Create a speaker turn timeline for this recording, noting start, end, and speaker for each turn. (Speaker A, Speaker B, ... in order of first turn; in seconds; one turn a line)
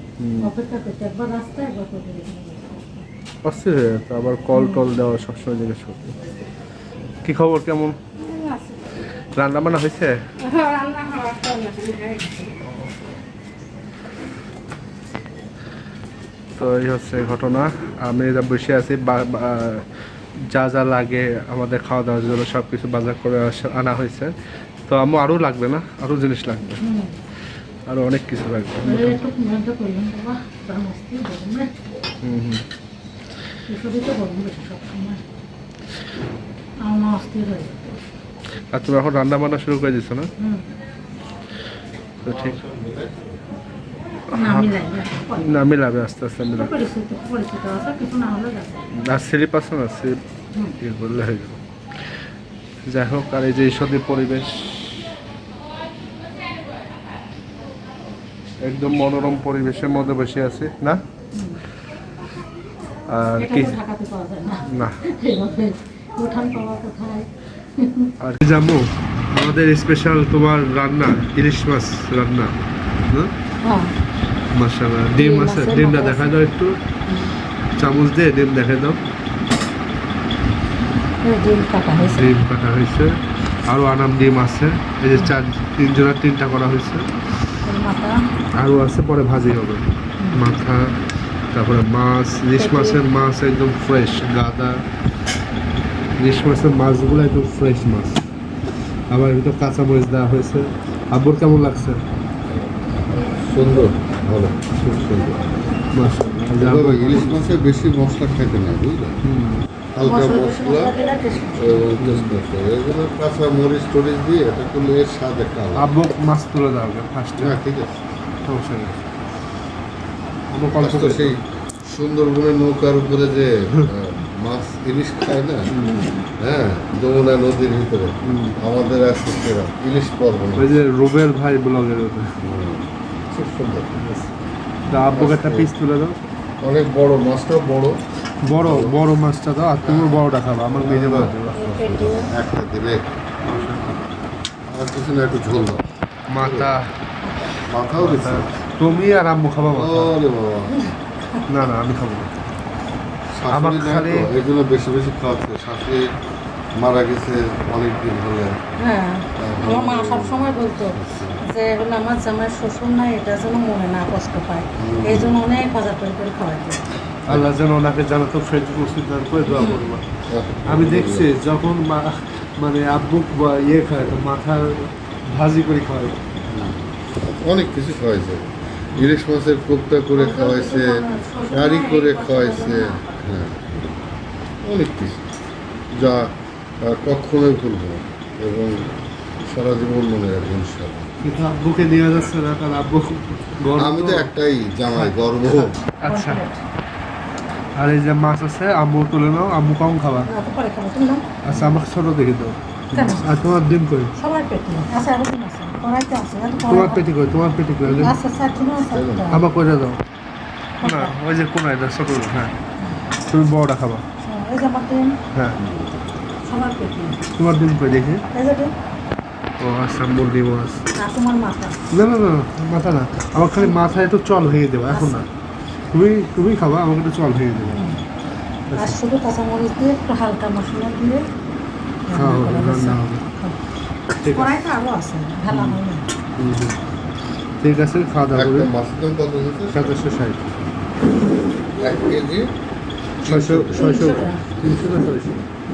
Speaker A: 0.2-0.5
Speaker B: 0.4-3.1
Speaker A: 3.5-6.2
Speaker B: 4.5-4.9
Speaker A: 7.2-8.0
Speaker B: 8.2-8.8
Speaker A: 9.3-10.2
Speaker B: 10.4-12.5
Speaker A: 16.6-19.9
Speaker A: 20.5-24.3
Speaker A: 24.9-26.8
Speaker B: 26.8-27.1
Speaker A: 27.9-29.2
Speaker B: 28.8-31.8
Speaker A: 32.2-32.6
Speaker B: 33.7-35.2
Speaker B: 36.8-37.9
Speaker A: 38.7-40.3
Speaker B: 40.4-40.6
Speaker C: 42.2-43.4
Speaker A: 42.2-42.6
Speaker A: 44.3-44.7
Speaker B: 44.3-45.6
Speaker A: 45.4-46.7
Speaker B: 46.5-48.9
Speaker A: 48.9-50.2
Speaker A: 50.8-51.6
Speaker A: 52.9-55.1
Speaker A: 58.6-61.0
Speaker B: 61.3-61.6
Speaker A: 63.1-63.8
Speaker B: 63.4-68.1
Speaker A: 64.6-65.0
Speaker A: 68.2-73.3
Speaker B: 73.6-73.9
Speaker A: 74.5-76.8
Speaker B: 75.1-76.4
Speaker B: 77.1-77.3
Speaker A: 77.8-79.0
Speaker B: 81.2-82.3
Speaker A: 82.0-87.1
Speaker B: 87.6-88.2
Speaker A: 88.6-91.0
Speaker B: 90.2-90.4
Speaker A: 91.5-94.8
Speaker B: 92.5-93.0
Speaker A: 96.2-98.2
Speaker A: 99.1-102.0
Speaker C: 103.1-104.7
Speaker A: 104.8-105.4
Speaker B: 105.1-105.8
Speaker A: 105.9-107.6
Speaker C: 106.6-109.2
Speaker A: 109.2-109.7
Speaker C: 110.0-111.0
Speaker B: 110.0-111.9
Speaker C: 111.6-115.9
Speaker A: 112.0-112.4
Speaker A: 115.8-117.6
Speaker C: 117.4-118.0
Speaker A: 118.5-119.0
Speaker A: 120.5-121.4
Speaker C: 120.8-125.7
Speaker A: 125.7-126.0
Speaker B: 125.8-126.3
Speaker C: 126.4-130.7
Speaker A: 128.2-128.6
Speaker A: 130.6-132.4
Speaker C: 132.4-134.0
Speaker A: 133.9-134.3
Speaker A: 134.9-136.2
Speaker C: 135.1-135.7
Speaker C: 136.6-138.0
Speaker A: 138.4-141.6
Speaker C: 138.6-139.0
Speaker C: 139.8-140.1
Speaker C: 140.8-143.1
Speaker B: 141.5-142.3
Speaker A: 143.4-144.0
Speaker C: 144.7-146.7
Speaker A: 146.3-146.9
Speaker B: 147.2-147.6
Speaker C: 147.7-148.5
Speaker A: 147.9-150.1
Speaker C: 149.7-150.7
Speaker B: 150.7-151.4
Speaker A: 151.5-152.3
Speaker C: 153.3-156.1
Speaker A: 153.5-154.3
Speaker C: 156.8-158.6
Speaker B: 158.8-166.8
Speaker C: 159.4-161.4
Speaker C: 164.8-165.4
Speaker A: 167.3-170.0
Speaker B: 169.4-170.0
Speaker C: 170.3-171.3
Speaker A: 170.7-176.2
Speaker C: 176.5-183.8
Speaker B: 180.1-183.2
Speaker C: 184.6-185.2
Speaker C: 185.9-188.9
Speaker C: 189.4-191.1
Speaker A: 191.2-194.3
Speaker C: 193.8-195.8
Speaker A: 194.9-196.4
Speaker B: 196.0-196.6
Speaker A: 197.8-200.3
Speaker B: 200.3-201.2
Speaker A: 201.4-204.1
Speaker B: 202.9-203.3
Speaker B: 204.1-207.1
Speaker A: 206.6-208.2
Speaker B: 207.8-209.4
Speaker C: 208.9-209.3
Speaker A: 209.3-210.0
Speaker B: 210.8-211.2
Speaker A: 210.8-212.5
Speaker A: 213.2-214.0
Speaker B: 214.2-215.2
Speaker C: 215.6-216.0
Speaker B: 216.4-217.2
Speaker A: 217.3-218.2
Speaker B: 218.3-218.7
Speaker A: 219.6-220.8
Speaker B: 220.9-221.8
Speaker A: 221.9-225.3
Speaker B: 224.9-225.2
Speaker A: 225.9-227.8
Speaker B: 227.7-228.0
Speaker B: 228.8-231.2
Speaker B: 232.1-233.6
Speaker A: 232.1-233.2
Speaker A: 234.2-234.6
Speaker B: 234.2-236.0
Speaker A: 235.5-235.8
Speaker A: 236.4-236.8
Speaker A: 237.6-238.7
Speaker C: 238.3-239.9
Speaker A: 239.7-240.6
Speaker C: 241.8-242.5
Speaker C: 243.2-244.2
Speaker A: 243.2-245.4
Speaker B: 243.7-244.4